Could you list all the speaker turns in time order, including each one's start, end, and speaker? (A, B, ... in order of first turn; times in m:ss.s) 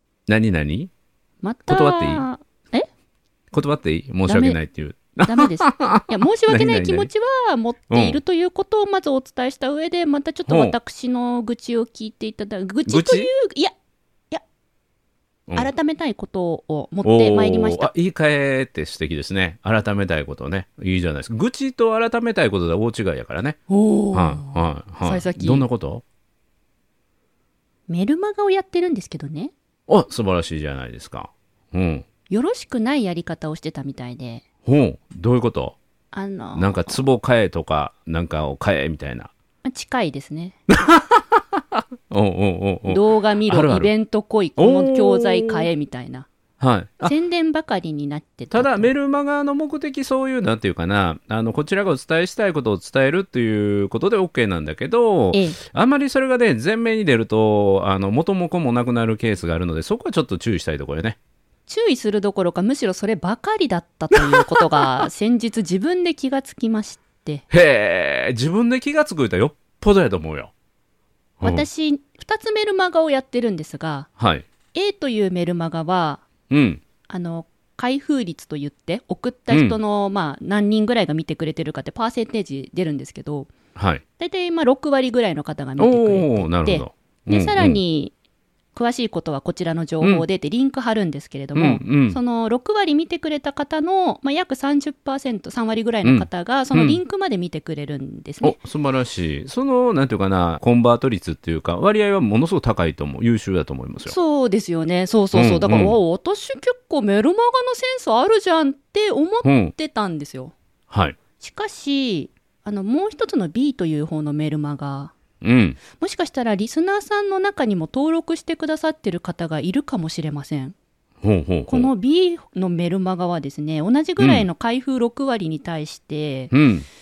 0:00.3-0:00.9 A
0:01.4-0:02.9 B
0:01.7-0:02.2 A
0:03.5-0:07.1 A
0:04.3-0:04.6 B
0:05.2-0:13.7 B
0:07.9-0:08.2 A
0:10.4-0:10.8 A
0:12.9-0:13.3 A
0:15.5-0:17.9 B
0:17.0-0:23.6 A
0:23.7-0:25.6 B
0:24.1-0:26.0 A
0:27.9-0:29.5 B
0:29.9-0:32.0 A
0:32.3-0:34.4 B
0:34.6-0:35.8 A
0:36.1-0:37.0 B
0:36.6-0:39.3 A
0:39.6-0:40.6 B
0:40.7-0:43.9 A
0:42.9-0:46.3 B
0:44.6-0:45.7 A
0:46.6-0:47.1 A
0:47.0-0:48.9 B
0:48.5-1:01.2 A
0:55.3-0:55.6 B
1:01.7-1:07.4 B
1:04.2-1:05.0 A
1:07.5-1:10.5 A
1:11.4-1:11.7 A
1:11.4-1:14.1 B
1:14.2-1:14.4 A
1:14.7-1:16.2 B
1:16.5-1:16.8 A
1:17.1-1:23.5 B
1:19.5-1:19.8 A
1:23.7-1:24.0 A
1:24.2-1:28.1 B
1:25.8-1:27.8 A
1:28.7-1:38.6 B
1:31.5-1:32.2 A
1:36.0-1:37.0 A
1:38.4-1:44.2 A
1:44.0-1:50.5 B
1:45.3-1:46.0 A
1:49.4-1:49.7 A
1:50.9-1:51.2 A
1:51.4-1:55.1 B
1:55.4-1:55.8 A
1:55.9-2:00.7 B
2:01.2-2:01.9 A
2:01.7-2:06.5 B
2:04.2-2:04.4 A
2:06.5-2:06.8 A